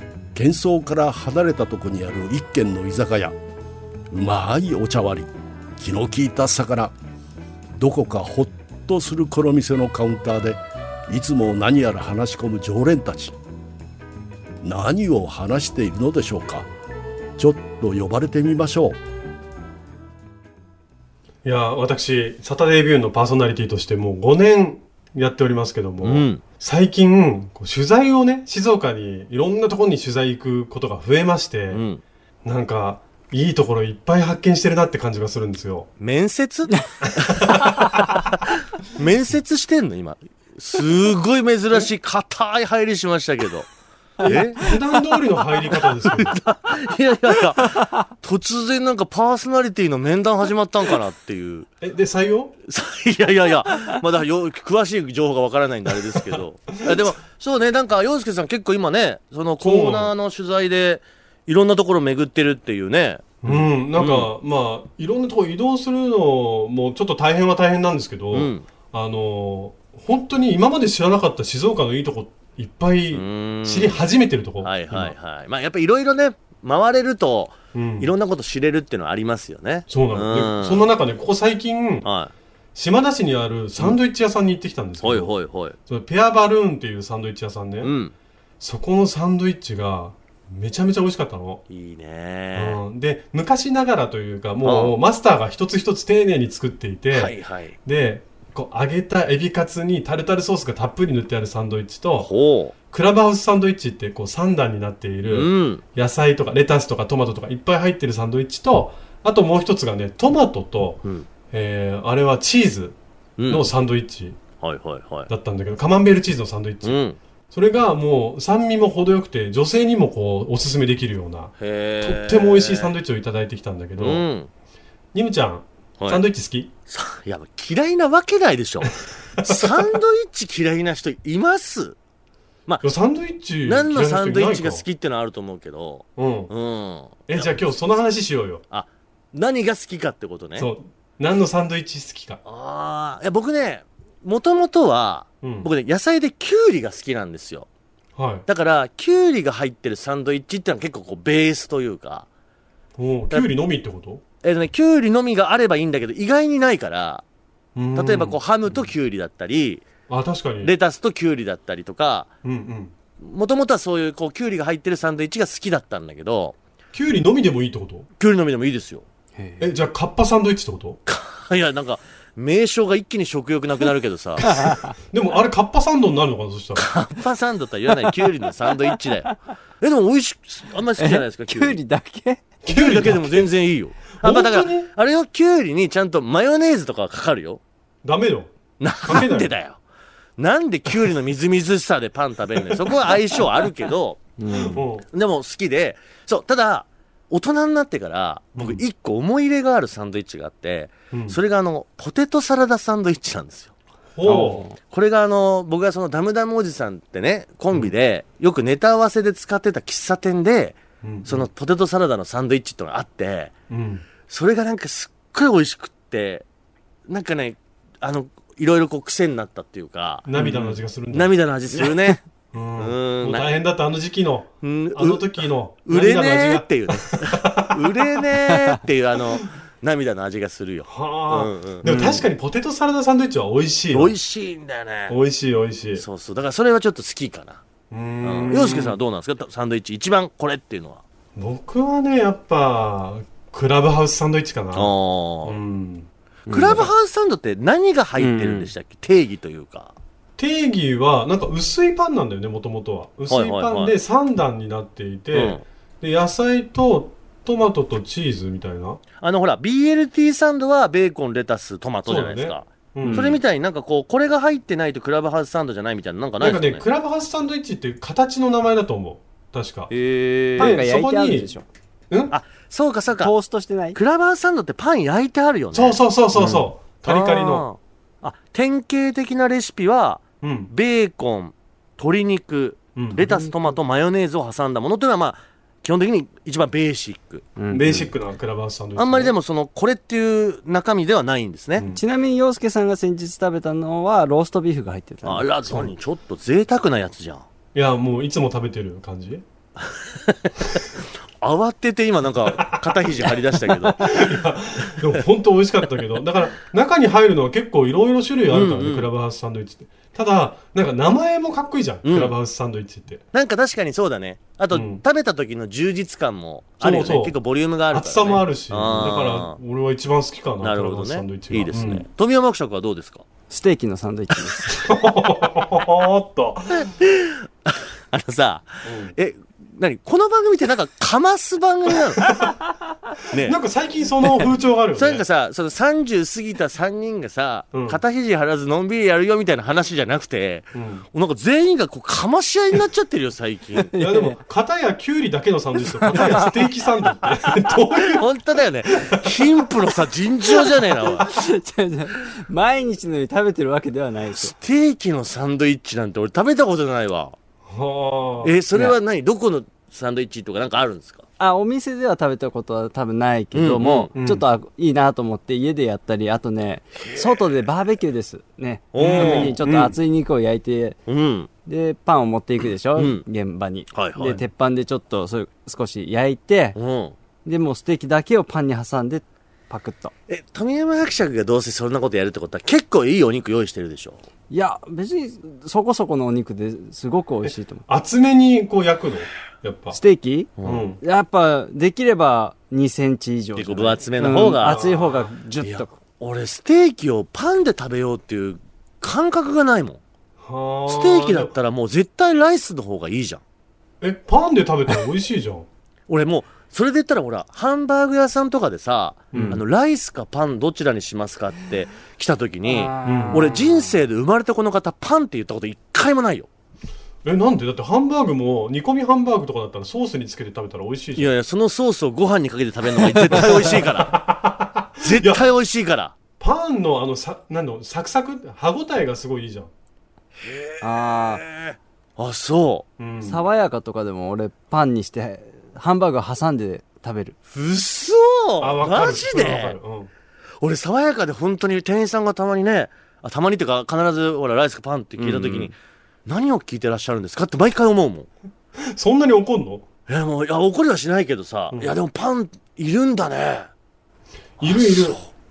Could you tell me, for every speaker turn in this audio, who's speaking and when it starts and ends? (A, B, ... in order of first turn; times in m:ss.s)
0:00.3-0:03.4 A
0:04.1-0:06.9 A
0:07.8-0:13.4 A
0:14.6-0:16.7 A
0:17.4-0:19.0 A
0:21.4-0:31.8 B
0:26.0-0:26.4 C
0:31.7-0:32.0 C
0:32.4-0:35.9 B
0:36.0-0:43.7 C
0:37.2-0:37.8 B
0:44.2-0:44.8 C
0:44.2-0:46.4 B
0:45.7-0:51.7 C
0:51.8-0:52.6 B
0:52.7-1:04.3 C
0:59.6-1:00.1 B
1:03.4-1:15.2 B
1:08.3-1:08.6 C
1:13.1-1:14.0 C
1:14.6-1:20.9 C
1:17.7-1:18.1 B
1:19.9-1:22.1 B
1:22.0-1:22.3 C
1:22.8-1:25.3 B
1:25.0-1:25.8 C
1:25.9-1:27.9 B
1:27.8-1:28.1 C
1:28.6-1:31.6 B
1:31.7-1:32.8 C
1:32.5-1:42.3 B
1:34.6-1:35.0 C
1:37.1-1:37.8 C
1:42.2-1:42.7 C
1:42.9-1:53.0 B
1:45.3-1:45.8 C
1:53.4-1:53.7 C
1:53.5-1:54.4 B
1:54.6-1:55.3 C
1:55.3-1:57.0 B
1:56.8-1:57.2 C
1:57.5-2:04.3 B
2:01.6-2:02.9 C
2:04.0-2:04.5 C
2:05.1-2:06.7 B
2:06.0-2:06.2 C
2:06.9-2:12.0 C
2:09.4-2:10.0 B
2:12.8-2:14.8 B
2:13.6-2:17.6 C
2:16.2-2:16.5 B
2:17.3-2:18.6 B
2:18.7-2:20.7 C
2:20.6-2:22.4 B
2:22.4-2:27.7 C
2:25.4-2:25.7 B
2:28.2-2:28.4 B
2:28.5-2:32.3 C
2:33.0-2:34.2 B
2:34.4-2:37.2 C
2:37.8-2:38.4 B
2:38.0-2:39.9 C
2:40.1-2:40.7 B
2:40.6-2:42.3 C
2:42.4-2:42.9 B
2:43.2-2:46.6 C
2:46.9-2:48.1 B
2:48.2-2:49.0 C
2:49.4-2:49.7 D
2:49.6-2:51.0 B
2:51.1-2:54.6 C
2:54.5-2:54.9 D
2:54.5-2:56.9 B
2:56.8-3:01.8 C
3:01.0-3:02.4 D
3:02.6-3:03.5 B
3:02.7-3:07.6 C
3:04.2-3:04.9 B
3:08.0-3:08.5 B
3:08.8-3:09.8 C
3:09.0-3:09.5 B
3:10.4-3:14.2 C
3:14.4-3:14.8 D
3:14.5-3:15.1 B
3:15.1-3:23.7 C
3:18.6-3:18.8 B
3:21.1-3:21.4 B
3:24.2-3:24.6 B
3:24.2-3:24.8 D
3:24.8-3:33.5 C
3:31.0-3:31.5 B
3:33.7-3:34.0 B
3:34.3-3:36.4 C
3:37.1-3:42.2 C
3:40.3-3:41.3 B
3:42.5-3:48.2 B
3:42.8-3:43.6 C
3:44.6-3:51.9 C
3:48.5-3:48.8 D
3:50.9-3:54.2 B
3:51.8-3:52.3 D
3:53.9-3:55.2 C
3:55.1-3:56.0 B
3:56.0-3:57.6 C
3:57.9-3:59.0 B
3:58.2-4:01.0 C
4:01.4-4:04.9 B
4:04.7-4:05.6 C
4:05.4-4:06.1 B
4:06.5-4:06.9 D
4:06.5-4:09.9 C
4:08.2-4:08.7 D
4:10.4-4:19.0 B
4:13.3-4:14.0 C
4:15.3-4:15.6 C
4:19.2-4:26.8 C
4:22.1-4:23.4 B
4:23.0-4:23.4 D
4:26.4-4:29.9 B
4:29.9-4:30.8 C
4:30.5-4:31.6 D
4:30.6-4:31.5 B
4:32.1-4:32.4 B
4:32.3-4:33.3 C
4:33.2-4:34.0 D
4:34.0-4:36.0 C
4:35.7-4:37.7 B
4:36.4-4:36.6 D
4:37.1-4:47.5 C
4:40.4-4:40.7 B
4:43.0-4:43.2 B
4:43.2-4:43.6 D
4:47.6-4:48.1 D
4:47.7-4:49.4 B
4:49.0-4:51.9 C
4:51.9-4:55.5 D
4:55.2-4:57.5 C
4:57.7-4:59.4 B
4:59.8-5:04.4 C
5:03.8-5:13.2 B
5:08.5-5:09.1 C
5:12.0-5:12.4 C
5:13.3-5:19.6 C
5:14.7-5:15.0 B
5:16.8-5:17.4 B
5:17.9-5:22.1 B
5:20.6-5:23.2 C
5:23.5-5:24.6 D
5:24.8-5:26.9 B
5:26.7-5:32.6 C
5:28.8-5:29.2 B
5:33.3-5:33.6 C
5:33.3-5:35.2 B
5:34.4-5:43.9 C
5:37.7-5:38.0 B
5:40.8-5:41.0 B
5:43.8-5:44.4 D
5:44.0-5:48.3 B
5:46.1-5:46.6 D
5:48.0-5:51.3 C
5:48.9-5:49.7 B
5:51.2-5:54.5 D
5:54.4-5:57.4 C
5:57.7-5:58.5 B
5:58.4-6:01.2 C
6:01.4-6:11.0 D
6:03.5-6:04.1 C
6:04.2-6:04.4 B
6:07.0-6:07.4 C
6:08.9-6:09.6 C
6:09.0-6:10.0 B
6:11.1-6:11.5 C
6:11.7-6:16.8 D
6:13.0-6:13.2 C
6:13.9-6:14.4 C
6:16.8-6:17.2 C
6:17.4-6:20.1 D
6:20.3-6:24.2 C
6:24.5-6:27.8 D
6:27.9-6:30.0 B
6:29.9-6:36.0 D
6:30.6-6:30.8 C
6:30.6-6:31.0 B
6:33.6-6:34.9 C
6:34.4-6:35.3 B
6:35.6-6:40.0 C
6:40.4-6:41.5 B
6:40.9-6:43.4 C
6:44.0-6:45.7 B
6:46.1-6:56.5 C
6:49.3-6:49.6 B
6:49.3-6:49.6 D
6:52.6-6:54.0 D
6:53.0-6:53.5 B
6:57.2-7:01.3 B
7:01.2-7:04.3 C
7:03.4-7:05.5 B
7:05.0-7:06.1 C
7:06.4-7:09.7 B
7:10.4-7:12.9 C
7:10.8-7:11.4 D
7:13.0-7:13.4 B
7:13.2-7:17.4 D
7:17.5-7:19.8 C
7:18.6-7:20.1 B
7:20.6-7:25.8 C
7:25.2-7:25.7 B
7:26.3-7:28.3 C
7:28.8-7:29.9 B
7:30.1-7:33.7 C
7:34.6-7:35.2 B
7:34.6-7:35.3 C